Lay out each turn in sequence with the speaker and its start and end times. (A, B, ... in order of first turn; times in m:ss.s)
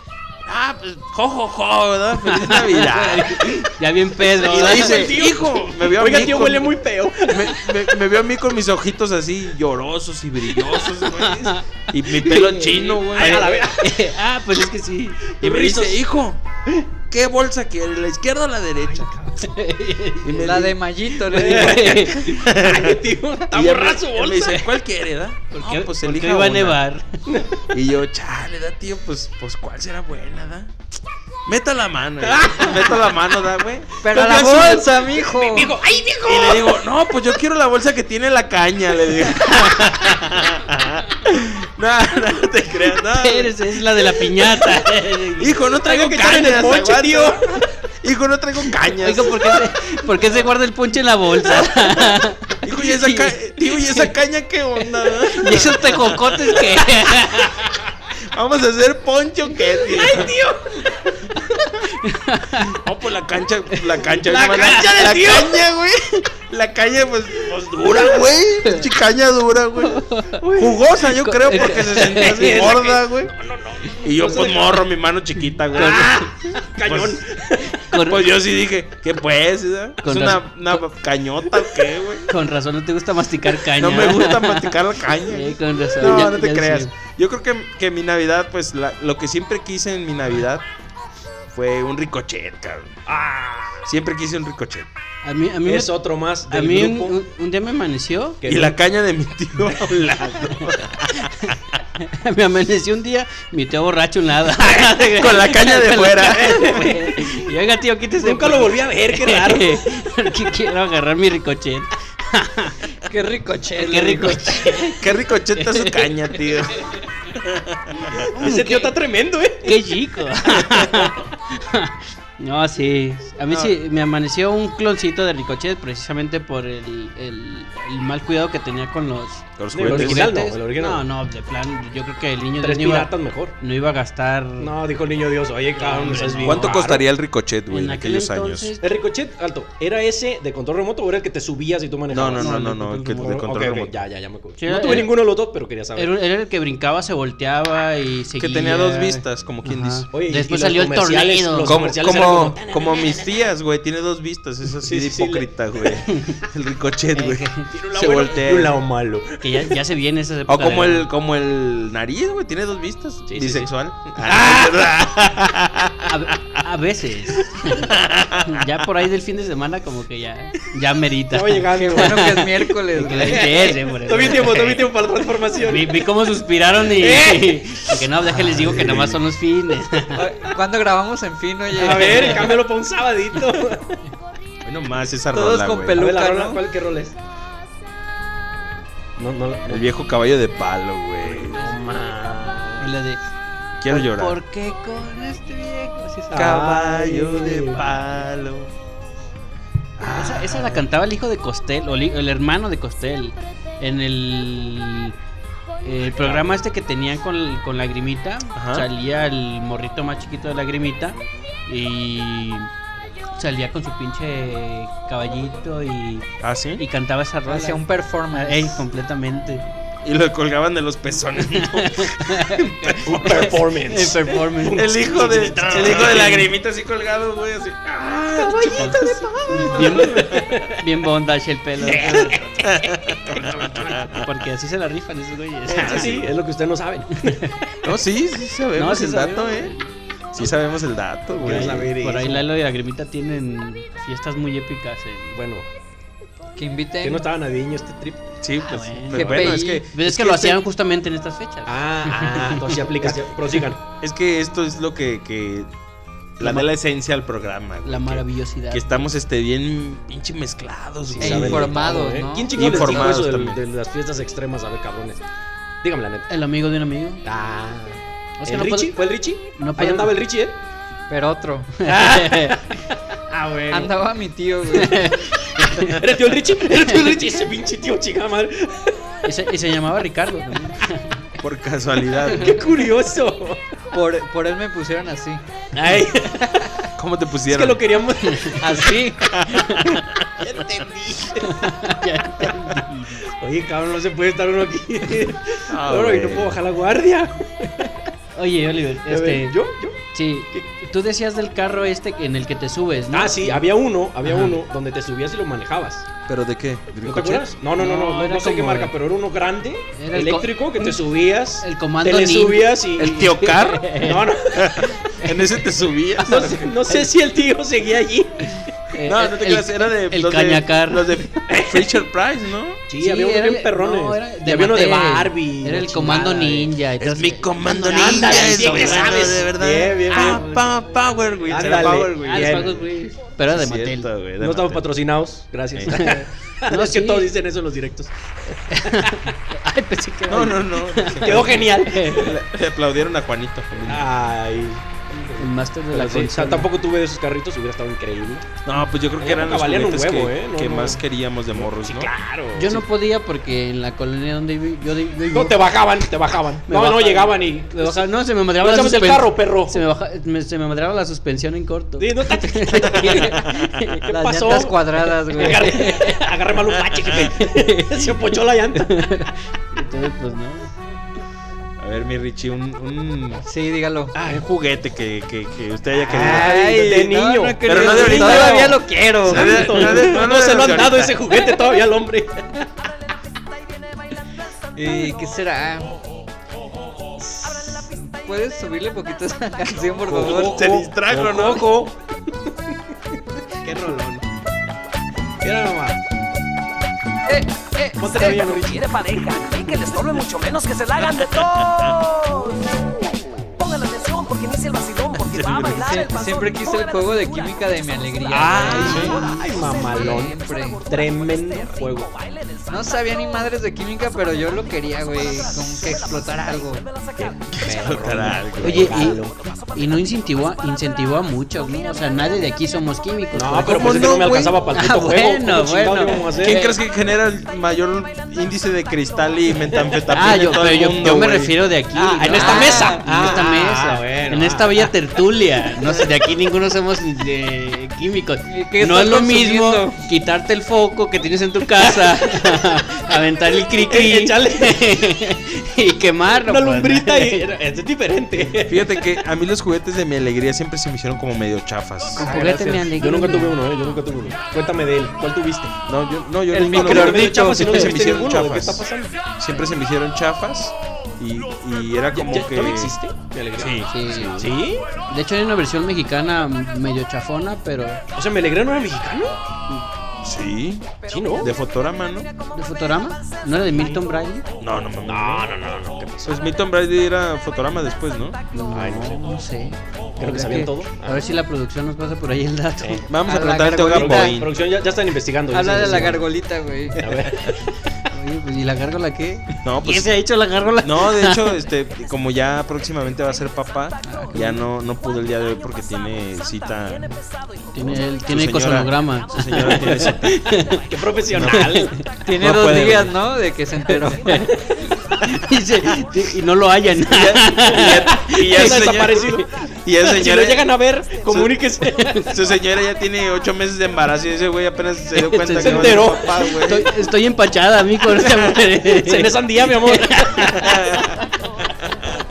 0:00.4-0:03.7 A
0:02.2-0:05.2 B
0:04.3-0:13.6 A
0:04.3-0:08.0 C
0:11.1-0:15.2 B
0:13.0-0:14.0 C
0:15.4-0:16.0 C
0:15.4-0:16.4 A
0:17.1-0:19.1 A
0:18.8-0:19.4 C
0:19.4-0:20.4 B
0:20.2-0:20.8 A
0:20.3-0:21.9 D
0:21.3-0:24.7 C
0:21.3-0:22.4 B
0:22.2-0:26.8 A
0:25.5-0:27.0 B
0:27.3-0:27.6 C
0:27.7-0:30.7 A
0:31.4-0:33.9 A
0:32.2-0:33.4 C
0:34.0-0:36.8 C
0:34.0-0:35.7 D
0:36.2-0:44.8 A
0:43.1-0:45.5 B
0:45.4-0:47.4 A
0:45.7-0:47.6 C
0:48.0-0:49.8 A
0:48.9-0:54.1 B
0:51.4-0:56.8 A
0:55.3-0:57.5 B
0:58.2-1:00.3 A
0:59.7-1:01.7 C
1:02.0-1:02.8 B
1:02.6-1:13.3 A
1:04.0-1:05.6 C
1:07.8-1:08.2 C
1:10.1-1:10.4 B
1:10.4-1:10.8 C
1:11.0-1:12.7 B
1:11.6-1:14.8 C
1:14.0-1:16.3 A
1:15.7-1:17.8 C
1:15.7-1:16.3 B
1:16.8-1:17.2 A
1:17.9-1:18.3 B
1:18.0-1:22.3 A
1:20.0-1:20.8 B
1:22.3-1:26.9 B
1:23.6-1:30.6 A
1:31.5-1:33.0 A
1:33.1-1:33.9 C
1:33.8-1:34.9 A
1:35.2-1:36.0 B
1:35.6-1:37.2 C
1:36.5-1:38.4 B
1:38.4-1:38.8 C
1:38.4-1:41.5 A
1:42.0-1:52.8 B
1:44.7-1:46.9 A
1:46.2-1:47.3 C
1:48.2-1:49.8 C
1:53.1-1:54.7 D
1:53.8-1:56.5 B
1:54.9-1:58.3 A
1:58.2-1:59.8 C
1:58.3-1:59.0 B
1:59.6-2:14.7 B
2:00.6-2:01.1 C
2:03.5-2:03.8 A
2:09.6-2:10.4 A
2:09.7-2:11.0 C
2:12.6-2:13.5 C
2:14.6-2:17.0 C
2:15.8-2:16.9 B
2:16.4-2:18.7 A
2:17.7-2:18.8 B
2:18.8-2:22.6 C
2:22.1-2:23.9 A
2:22.4-2:23.5 B
2:23.2-2:26.2 C
2:24.6-2:25.2 B
2:25.9-2:31.8 B
2:28.4-2:30.1 A
2:30.1-2:33.5 C
2:31.6-2:38.8 A
2:34.8-2:36.0 C
2:36.1-2:36.4 B
2:37.1-2:37.7 B
2:37.7-2:39.7 C
2:39.4-2:41.1 B
2:40.5-2:46.6 A
2:43.3-2:43.7 C
2:44.2-2:44.9 C
2:46.0-2:54.9 B
2:47.8-2:48.8 A
2:51.3-2:52.4 C
2:51.8-2:53.6 D
2:53.0-2:56.0 C
2:55.6-3:00.2 B
2:56.8-2:58.5 C
2:58.2-2:59.2 A
3:00.1-3:02.6 D
3:01.7-3:04.0 C
3:02.0-3:02.5 B
3:04.6-3:06.0 A
3:05.3-3:06.6 D
3:06.0-3:07.2 C
3:09.2-3:09.8 C
3:09.6-3:11.7 A
3:11.2-3:12.9 C
3:12.8-3:13.2 B
3:13.8-3:14.4 A
3:13.9-3:16.5 B
3:16.3-3:17.8 C
3:16.3-3:18.7 A
3:20.0-3:20.9 A
3:20.1-3:25.1 B
3:25.8-3:32.7 B
3:26.1-3:26.6 A
3:28.5-3:28.9 A
3:33.4-3:39.6 B
3:36.4-3:36.8 A
3:37.4-3:38.8 D
3:40.0-3:43.6 A
3:41.5-3:46.5 B
3:42.8-3:46.5 C
3:44.7-3:49.0 A
3:48.0-3:50.8 C
3:48.8-3:52.4 B
3:49.8-3:50.4 A
3:51.8-3:54.0 C
3:52.6-3:54.2 A
3:54.1-3:56.2 B
3:55.7-3:57.5 C
3:55.7-3:56.3 A
3:57.8-3:59.8 A
3:58.7-3:59.9 B
4:00.3-4:01.9 A
4:01.3-4:02.5 C
4:01.4-4:05.4 B
4:05.3-4:05.7 C
4:06.6-4:07.2 D
4:07.0-4:08.3 C
4:08.4-4:10.6 A
4:08.6-4:12.9 B
4:09.1-4:09.8 D
4:11.6-4:13.8 C
4:13.0-4:13.3 A
4:14.0-4:15.7 A
4:16.4-4:21.8 A
4:16.4-4:16.7 B
4:17.8-4:19.1 B
4:21.1-4:25.2 C
4:21.2-4:23.1 D
4:22.5-4:23.6 A
4:25.8-4:26.3 C
4:26.3-4:27.2 B
4:27.2-4:30.6 C
4:28.4-4:29.0 B
4:29.5-4:30.1 B
4:31.1-4:32.4 D
4:31.8-4:32.8 B
4:33.3-4:33.9 B
4:33.7-4:35.1 D
4:34.7-4:35.9 B
4:35.8-4:38.9 C
4:39.2-4:41.2 B
4:41.4-4:42.6 A
4:42.3-4:43.6 C
4:43.9-4:45.4 D
4:45.7-4:46.8 C
4:47.0-4:47.8 A
4:47.5-4:49.0 C
4:48.3-4:48.6 B
4:48.6-4:49.3 D
4:49.2-4:50.2 A
4:49.6-4:49.9 B
4:50.4-4:51.8 C
4:51.4-4:53.3 B
4:53.3-4:58.1 C
4:55.7-4:56.6 A
4:58.4-4:59.6 B
4:59.1-5:00.0 C
5:00.1-5:03.7 B
5:03.1-5:06.1 C
5:04.2-5:04.6 B
5:06.2-5:07.5 A
5:07.0-5:14.8 C
5:07.8-5:08.9 B
5:09.9-5:11.0 B
5:11.6-5:14.3 B
5:13.0-5:13.9 A
5:14.5-5:16.6 A
5:16.2-5:18.7 C
5:16.3-5:17.0 B
5:18.9-5:21.4 B
5:19.0-5:22.8 A
5:21.5-5:21.9 C
5:22.9-5:26.7 C
5:23.0-5:29.4 B
5:27.0-5:32.8 A
5:27.8-5:30.5 C
5:30.1-5:30.7 B
5:31.5-5:32.8 C
5:32.2-5:34.1 B
5:33.4-5:34.9 A
5:34.4-5:39.3 C
5:35.7-5:36.1 A
5:35.9-5:37.3 B
5:38.7-5:42.4 B
5:40.3-5:44.1 A
5:41.2-5:42.4 C
5:43.8-5:48.5 C
5:45.4-5:46.7 B
5:48.6-5:52.1 A
5:49.2-5:52.8 C
5:52.5-5:55.6 B
5:55.3-5:59.8 C
5:56.7-6:04.0 B
6:02.0-6:04.8 C
6:04.1-6:06.1 D
6:05.3-6:09.3 C
6:05.4-6:06.1 B
6:06.9-6:07.3 A
6:07.4-6:10.7 B
6:11.8-6:13.4 A
6:13.4-6:14.1 D
6:14.1-6:14.4 C
6:14.2-6:16.6 A
6:16.0-6:22.5 C
6:16.1-6:20.0 D
6:17.6-6:21.2 A
6:24.8-6:26.0 D
6:27.2-6:30.8 D
6:30.1-6:31.8 A
6:30.1-6:32.8 C
6:33.6-6:34.2 C
6:35.4-6:36.0 C
6:37.2-6:38.4 D
6:38.0-6:38.9 C
6:38.2-6:42.8 E
6:41.0-6:41.9 A
6:43.6-6:53.5 E
6:45.2-6:45.9 A
6:45.7-6:50.8 D
6:48.3-6:50.4 C
6:48.8-6:49.2 A
6:50.9-6:52.1 C
6:52.7-6:56.8 D
6:54.0-6:58.3 E
6:57.2-6:59.3 C
6:57.6-6:59.0 A
6:58.6-6:59.2 B
6:59.1-7:00.7 E
6:59.7-7:04.1 B
7:01.7-7:02.3 E
7:03.3-7:06.6 C
7:03.6-7:04.6 A
7:04.7-7:06.8 B
7:06.4-7:11.6 A
7:10.1-7:27.5 B
7:11.9-7:14.9 C
7:12.3-7:13.0 D
7:18.4-7:20.0 D
7:22.0-7:22.6 C
7:23.7-7:24.9 C
7:26.4-7:29.1 C
7:28.6-7:32.4 A
7:32.2-7:33.6 B
7:32.2-7:35.7 C
7:35.8-7:38.8 A
7:36.5-7:37.9 D
7:36.7-7:39.3 C
7:39.4-7:43.0 A
7:42.1-7:44.8 C
7:43.6-7:44.6 A
7:43.9-7:48.0 B
7:48.1-7:49.4 C
7:50.2-7:52.3 A
7:51.0-7:51.5 E
7:51.1-7:51.5 C
7:52.5-7:54.4 B
7:54.6-7:55.5 A
7:55.0-7:56.5 C
7:56.2-7:58.4 A
7:58.5-8:03.1 B
7:58.7-7:59.4 C
8:00.2-8:01.3 C
8:02.8-8:03.1 C
8:03.1-8:04.5 A
8:03.2-8:04.4 D
8:03.8-8:06.2 C
8:05.5-8:07.0 D
8:05.8-8:06.1 B
8:07.0-8:07.5 C
8:08.1-8:11.6 B
8:09.6-8:10.2 A
8:10.8-8:17.2 A
8:14.1-8:14.5 D
8:17.7-8:22.0 B
8:17.8-8:20.4 A
8:20.9-8:21.9 C
8:21.3-8:21.7 A
8:22.2-8:24.5 D
8:22.4-8:23.1 A
8:23.9-8:24.5 B
8:25.2-8:29.4 B
8:27.0-8:31.6 A
8:27.7-8:29.5 C
8:30.0-8:32.4 C
8:32.0-8:32.3 B
8:32.3-8:36.9 A
8:35.1-8:40.7 B
8:35.6-8:36.5 C
8:38.1-8:40.6 C
8:40.5-8:41.2 A